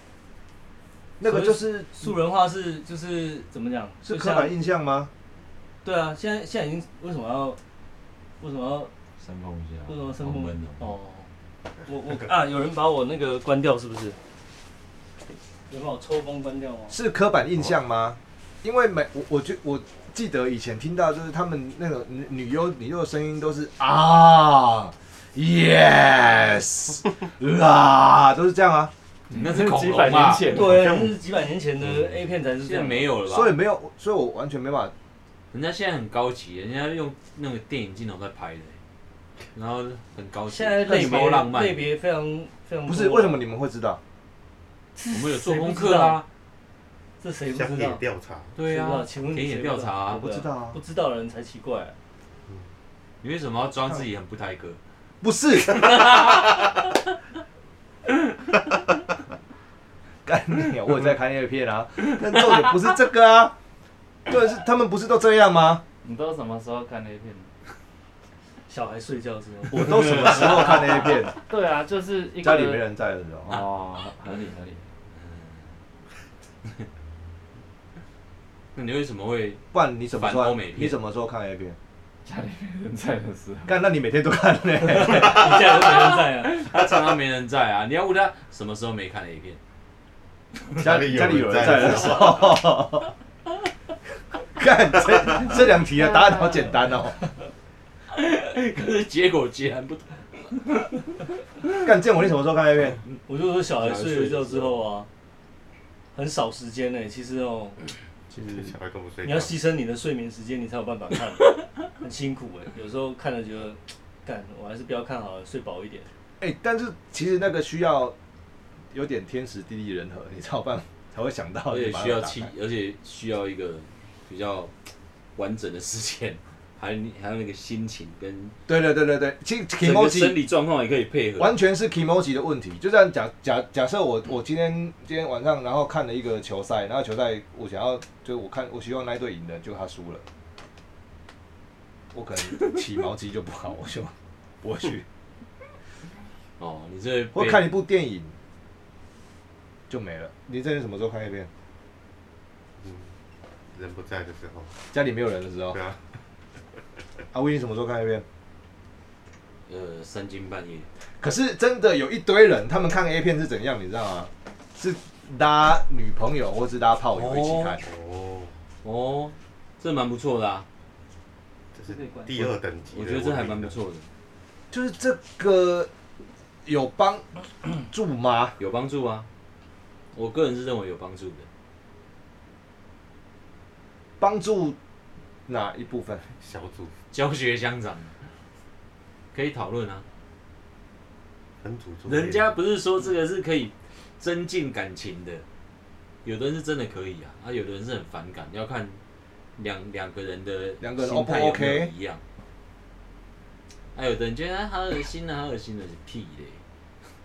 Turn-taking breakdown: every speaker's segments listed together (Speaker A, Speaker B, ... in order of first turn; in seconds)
Speaker A: 1.2-1.9, 4.0-5.1, 16.9-28.9, 33.3-34.9, 42.9-44.0, 50.2-50.8, 55.2-55.9, 60.3-63.5, 64.3-65.8, 69.7-71.3, 72.4-73.6, 79.7-81.8, 83.7-85.8, 90.8-93.1, 94.6-97.2, 101.8-103.0, 108.3-108.7, 116.4-118.2, 118.9-122.5, 128.7-130.4, 131.4-140.2, 142.1-145.1, 147.3-148.3, 149.9-151.5, 154.9-155.8, 157.3-158.2, 161.2-167.8, 174.7-175.9, 176.7-177.2, 177.9-178.6, 184.2-184.8, 185.5-186.3, 200.8-201.9
Speaker B: 1.2-4.5, 5.8-7.6, 8.4-8.9, 9.9-11.3, 11.9-14.2, 15.7-17.0, 30.5-33.1, 40.5-43.4, 45.0-46.2, 47.2-48.0, 48.6-51.9, 68.7-70.0, 84.8-86.6, 103.3-105.1, 106.2-107.8, 109.2-116.1, 171.9-172.2
Speaker C: 9.2-10.9, 29.3-30.6, 32.6-33.6, 35.5-38.8, 39.5-41.9, 45.1-46.3, 48.6-50.3, 53.2-54.8, 55.9-56.5, 75.2-75.6, 78.8-79.6, 80.2-81.0, 86.4-89.6, 98.1-100.6, 103.8-104.8, 121.7-124.7, 125.4-128.6, 129.8-131.5, 146.6-147.7, 159.7-160.9, 167.1-167.8, 168.8-170.7, 172.9-174.1, 178.6-179.3, 180.1-181.5, 187.1-188.2, 189.3-190.0, 192.1-195.4, 196.2-199.0, 199.6-202.2, 203.9-206.6
Speaker D: 29.3-30.9, 66.0-67.5, 71.5-72.8, 73.5-74.8, 82.3-83.7, 96.0-96.7
Speaker E: 30.5-31.2, 47.5-48.5, 90.8-92.5, 108.5-109.6, 152.8-153.1, 153.7-154.7, 155.7-156.1, 167.8-168.5, 171.8-173.8, 186.4-186.9, 191.6-192.5